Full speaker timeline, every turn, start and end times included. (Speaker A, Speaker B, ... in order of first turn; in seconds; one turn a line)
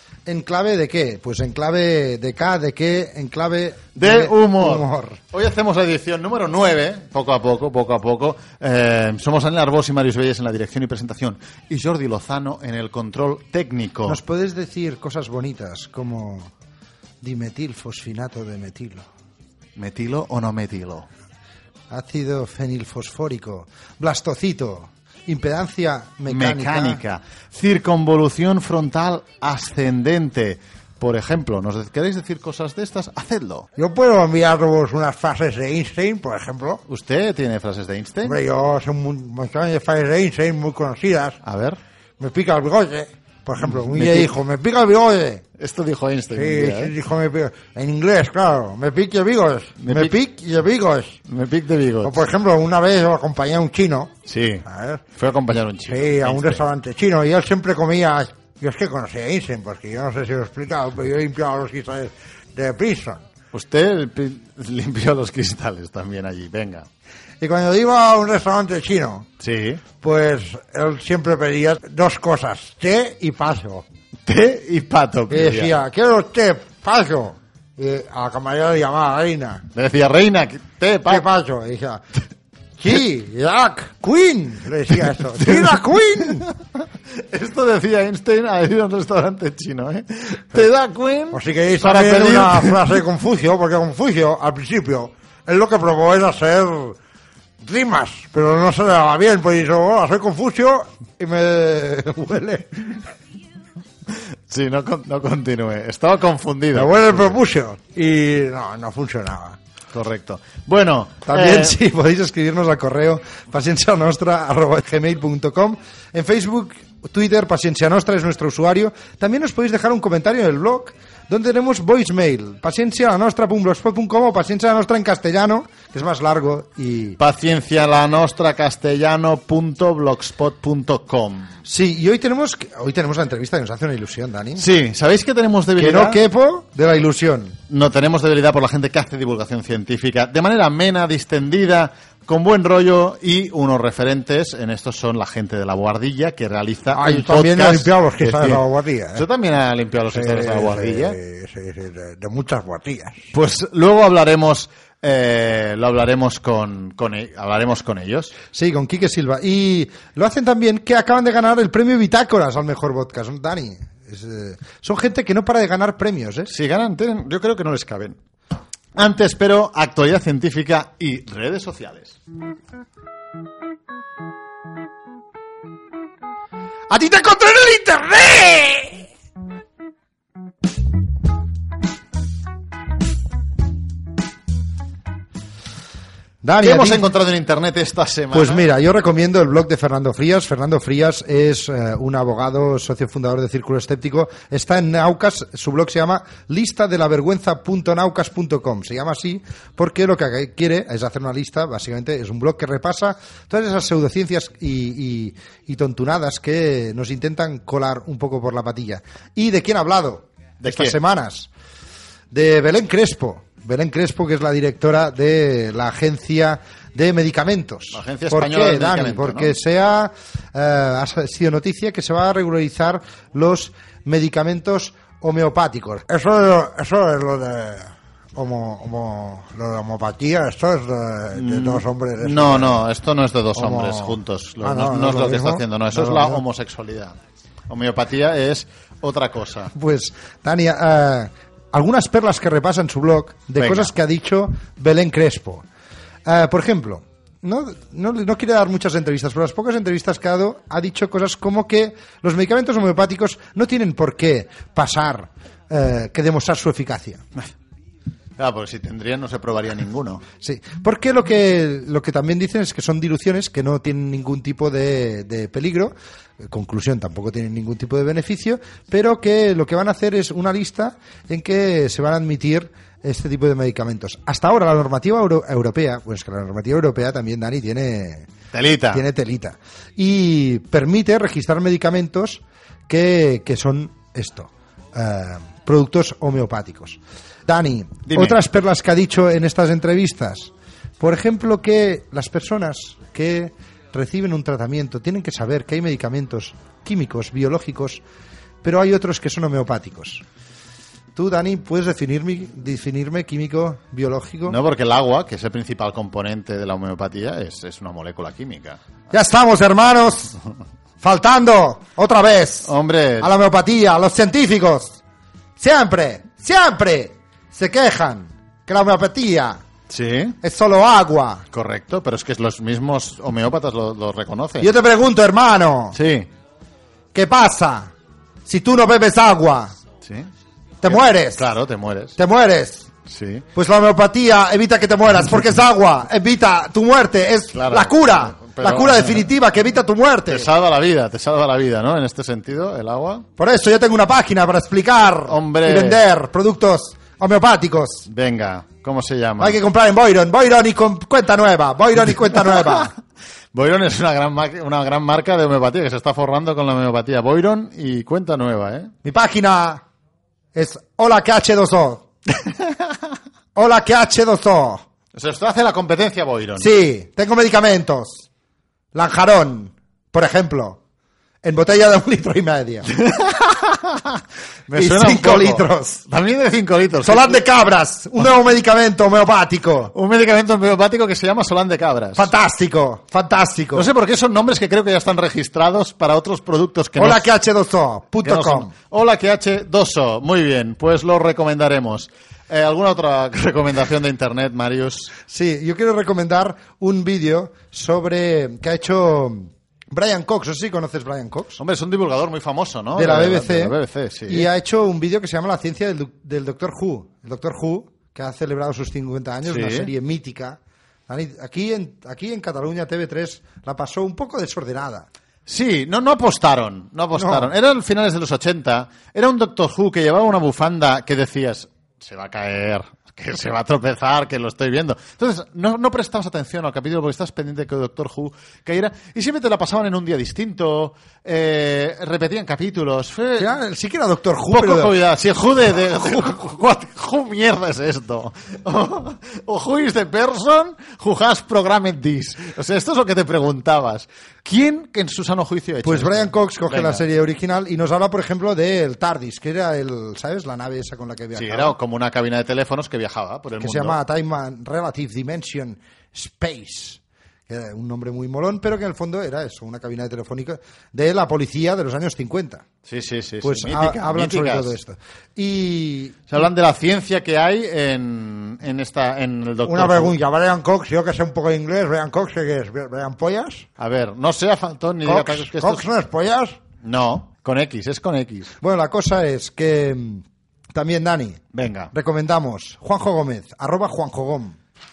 Speaker A: 0.3-5.2
Speaker B: 4.0-14.2
Speaker A: 14.1-16.5
Speaker A: 17.2-19.1
Speaker B: 19.8-21.1
Speaker A: 21.9-27.0
Speaker B: 26.3-33.7
Speaker A: 33.8-36.8
Speaker B: 36.9-38.4
Speaker A: 38.2-41.4
Speaker B: 41.4-41.8
Speaker A: 42.2-45.4
Speaker B: 43.7-44.3
Speaker B: 45.6-46.9
Speaker A: 46.3-51.2
Speaker B: 49.8-50.2
Speaker B: 51.3-52.2
Speaker A: 52.0-54.1
Speaker B: 54.3-56.6
Speaker A: 54.6-63.2
Speaker B: 63.5-66.9
Speaker A: 67.4-69.3
Speaker B: 69.4-69.8
Speaker A: 70.0-73.9
Speaker B: 74.3-75.8
Speaker A: 75.3-79.7
Speaker B: 79.7-81.2
Speaker A: 81.1-82.0
Speaker A: 82.8-86.5
Speaker B: 85.4-85.7
Speaker B: 87.1-92.8
Speaker A: 91.3-97.0
Speaker A: 97.6-103.1
Speaker B: 104.5-107.4
Speaker A: 106.7-109.6
Speaker B: 109.9-111.8
Speaker A: 111.3-127.2
Speaker B: 127.2-131.6
Speaker A: 131.7-134.7
Speaker B: 134.6-136.2
Speaker A: 135.8-137.6
Speaker B: 137.7-151.2
Speaker A: 146.9-149.3
Speaker A: 150.1-153.3
Speaker B: 153.3-158.4
Speaker A: 158.5-166.5
Speaker B: 166.5-168.2
Speaker B: 168.9-172.2
Speaker A: 176.9-179.1
Speaker A: 186.4-187.0
Speaker B: 186.6-188.7
Speaker A: 188.3-211.5
Speaker B: 210.6-211.0
Speaker A: 212.3-232.9
Speaker B: 217.9-219.6
Speaker B: 231.3-237.2
Speaker A: 233.6-236.4
Speaker B: 237.7-239.7
Speaker A: 239.7-245.7
Speaker B: 243.6-243.9
Speaker A: 246.2-257.2
Speaker B: 258.4-260.2
Speaker A: 260.4-278.3
Speaker B: 278.5-279.0
Speaker A: 278.9-298.0
Speaker B: 288.1-288.4
Speaker A: 298.6-300.2
Speaker A: 301.1-304.6
Speaker B: 304.5-308.8
Speaker A: 309.1-310.4
Speaker A: 311.0-315.0
Speaker B: 312.7-313.3
Speaker A: 315.6-319.6
Speaker B: 319.9-320.4
Speaker A: 320.4-321.5
Speaker B: 321.5-324.7
Speaker A: 324.6-326.0
Speaker B: 325.9-326.3
Speaker A: 327.1-327.9
Speaker A: 328.4-329.8
Speaker B: 330.0-330.3
Speaker A: 330.8-331.4
Speaker B: 330.9-332.2
Speaker A: 332.2-332.9
Speaker B: 333.1-333.5
Speaker A: 333.6-340.5
Speaker B: 337.5-339.3
Speaker B: 340.3-343.3
Speaker A: 343.4-348.1
Speaker B: 345.3-346.0
Speaker B: 348.1-349.6
Speaker A: 349.4-352.9
Speaker B: 352.4-353.0
Speaker B: 353.5-358.9
Speaker A: 359.0-359.8
Speaker A: 360.5-362.1
Speaker A: 363.6-364.9
Speaker B: 365.1-366.7
Speaker A: 366.6-368.3
Speaker A: 368.9-370.8
Speaker A: 371.4-372.9
Speaker B: 372.9-377.4
Speaker A: 374.7-376.1
Speaker A: 377.0-379.9
Speaker B: 379.9-382.3
Speaker A: 382.2-383.9
Speaker B: 383.7-387.3
Speaker A: 387.0-388.7
Speaker B: 388.2-395.1
Speaker A: 395.3-401.6
Speaker B: 401.6-404.5
Speaker A: 402.9-415.1
Speaker B: 409.5-409.9
Speaker B: 415.5-433.5
Speaker A: 417.1-417.5
Speaker A: 433.4-435.0
Speaker B: 434.5-447.0
Speaker A: 445.8-451.8
Speaker B: 451.4-454.0
Speaker A: 453.6-462.6
Speaker B: 462.9-464.8
Speaker A: 463.4-466.3
Speaker B: 466.3-470.1
Speaker A: 469.6-473.7
Speaker B: 473.8-475.9
Speaker A: 475.0-476.6
Speaker B: 476.8-478.5
Speaker A: 478.6-484.6
Speaker B: 481.5-481.9